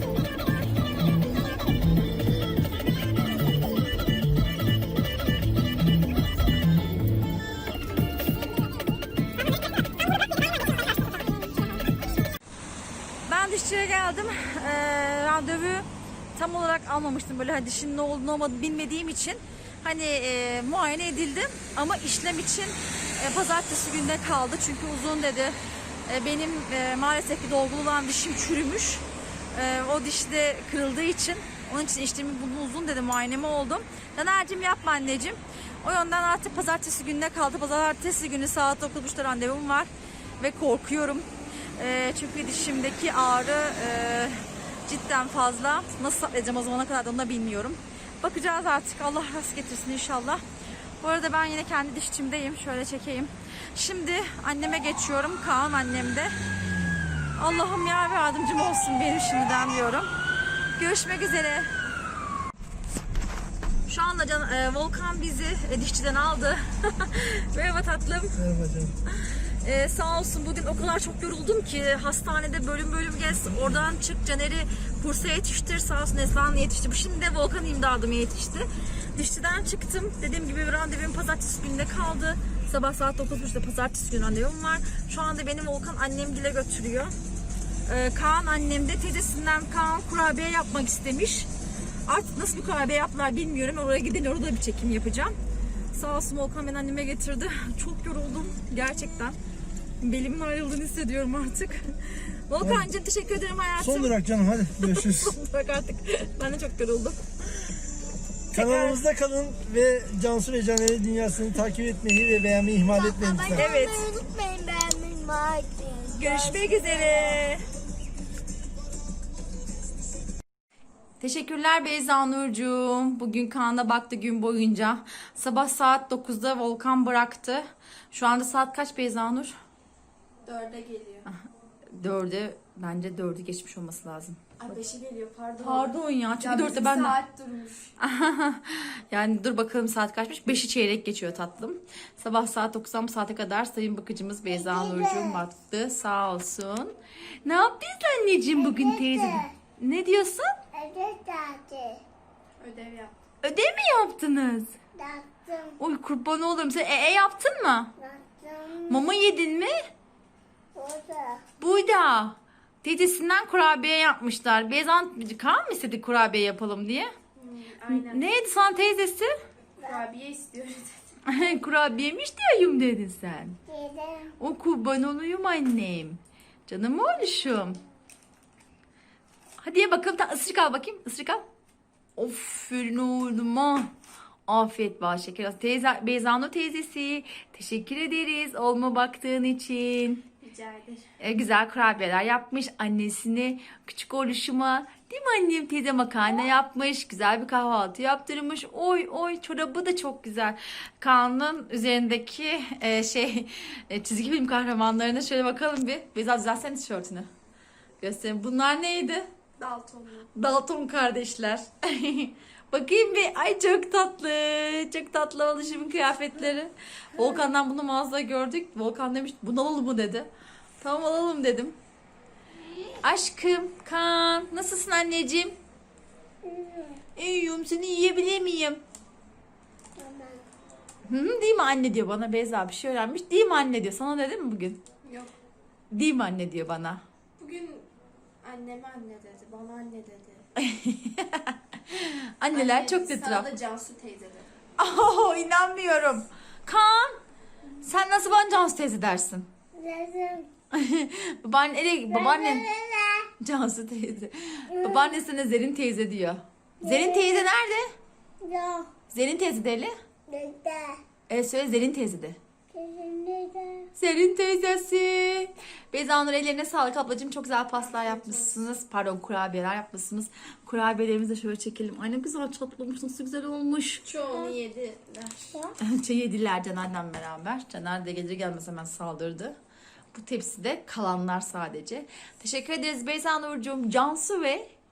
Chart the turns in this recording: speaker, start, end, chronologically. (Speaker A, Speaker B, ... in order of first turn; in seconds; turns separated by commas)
Speaker A: 13.3-50.4, Speaker A: 51.0-56.3, Speaker A: 57.4-60.1, Speaker A: 60.8-61.7, Speaker A: 63.9-68.5, Speaker A: 69.1-87.1, Speaker A: 87.9-91.5, Speaker A: 92.1-95.4, Speaker A: 95.9-99.4, Speaker A: 100.0-107.2, Speaker B: 104.0-104.7, Speaker B: 108.5-113.6, Speaker A: 108.5-109.1, Speaker C: 112.7-117.4, Speaker A: 113.5-114.1, Speaker A: 116.1-117.6, Speaker A: 121.2-129.6, Speaker D: 130.4-131.3, Speaker A: 131.9-134.5, Speaker D: 134.6-137.9, Speaker A: 135.6-137.2, Speaker A: 138.0-150.6, Speaker C: 144.5-145.4, Speaker C: 148.6-149.5, Speaker C: 150.7-152.0, Speaker D: 152.6-153.2, Speaker A: 153.4-154.8, Speaker C: 154.9-155.8, Speaker A: 155.8-157.9, Speaker C: 158.0-159.1, Speaker A: 158.9-159.8, Speaker C: 160.8-161.4, Speaker A: 161.6-167.1, Speaker D: 167.4-168.3, Speaker A: 167.9-169.3, Speaker D: 169.8-171.1, Speaker A: 171.2-173.6, Speaker C: 173.7-174.3, Speaker A: 174.4-177.8, Speaker A: 179.6-181.4, Speaker A: 182.2-183.9, Speaker A: 184.5-190.3, Speaker D: 190.4-191.1, Speaker A: 191.2-207.3, Speaker A: 208.0-209.3, Speaker D: 209.6-210.3, Speaker A: 210.3-220.3, Speaker A: 220.8-221.8, Speaker A: 223.0-225.6, Speaker C: 226.4-227.0, Speaker A: 227.2-228.8, Speaker C: 230.0-230.5, Speaker A: 231.1-234.8, Speaker D: 235.1-235.3, Speaker A: 235.9-237.0, Speaker D: 237.4-237.9, Speaker D: 238.4-240.4, Speaker A: 240.6-243.5, Speaker D: 242.5-244.5, Speaker A: 244.8-247.2, Speaker A: 247.8-249.5, Speaker C: 249.7-250.5, Speaker A: 250.7-252.7, Speaker C: 252.1-253.3, Speaker A: 253.4-257.9, Speaker C: 254.7-255.2, Speaker C: 256.8-257.5, Speaker C: 258.4-258.9, Speaker A: 259.1-260.0, Speaker C: 260.3-261.0, Speaker A: 261.3-262.4, Speaker C: 262.7-263.9, Speaker A: 264.0-274.1, Speaker D: 267.8-268.6, Speaker D: 274.0-275.6, Speaker C: 274.3-274.6, Speaker A: 275.8-279.6, Speaker A: 280.1-284.7